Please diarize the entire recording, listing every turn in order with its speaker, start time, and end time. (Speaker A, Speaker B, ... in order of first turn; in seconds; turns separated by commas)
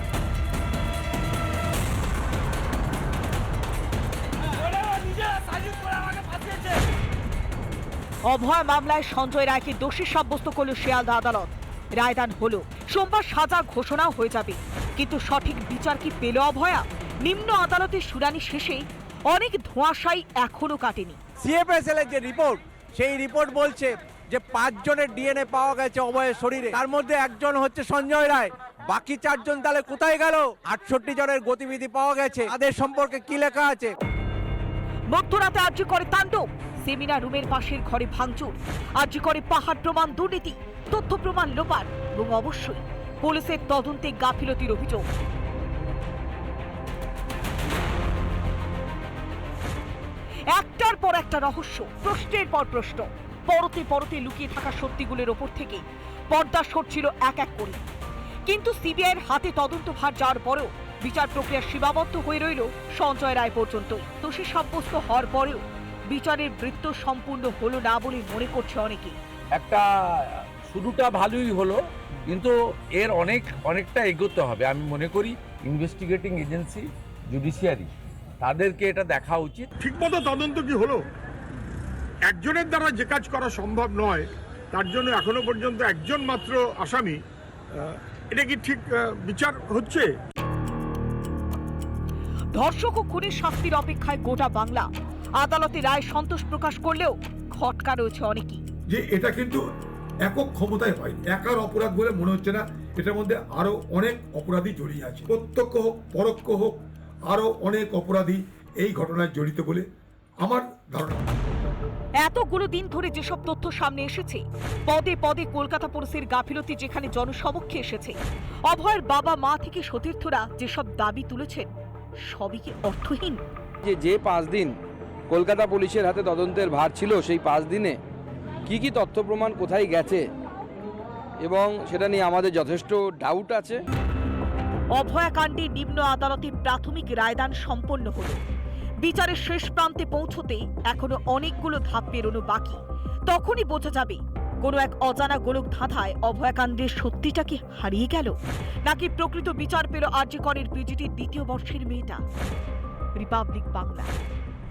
Speaker A: 8.2-21.2, Speaker B: 21.4-33.9, Speaker A: 35.1-45.0, Speaker A: 50.5-57.8, Speaker A: 58.5-69.2, Speaker C: 69.5-69.8, Speaker C: 70.5-77.9, Speaker C: 78.4-79.7, Speaker D: 79.8-81.0, Speaker D: 82.3-87.2, Speaker D: 87.7-90.1, Speaker A: 92.5-94.9, Speaker A: 95.4-98.6, Speaker E: 98.9-99.6, Speaker E: 100.2-109.8, Speaker E: 110.4-111.6, Speaker A: 112.2-118.2, Speaker A: 118.7-121.7, Speaker A: 122.3-123.4, Speaker F: 123.8-124.8, Speaker F: 125.3-128.0, Speaker F: 128.7-130.3, Speaker F: 131.4-133.8, Speaker A: 134.9-138.4, Speaker A: 139.0-148.3, Speaker A: 148.8-152.2, Speaker A: 153.2-154.1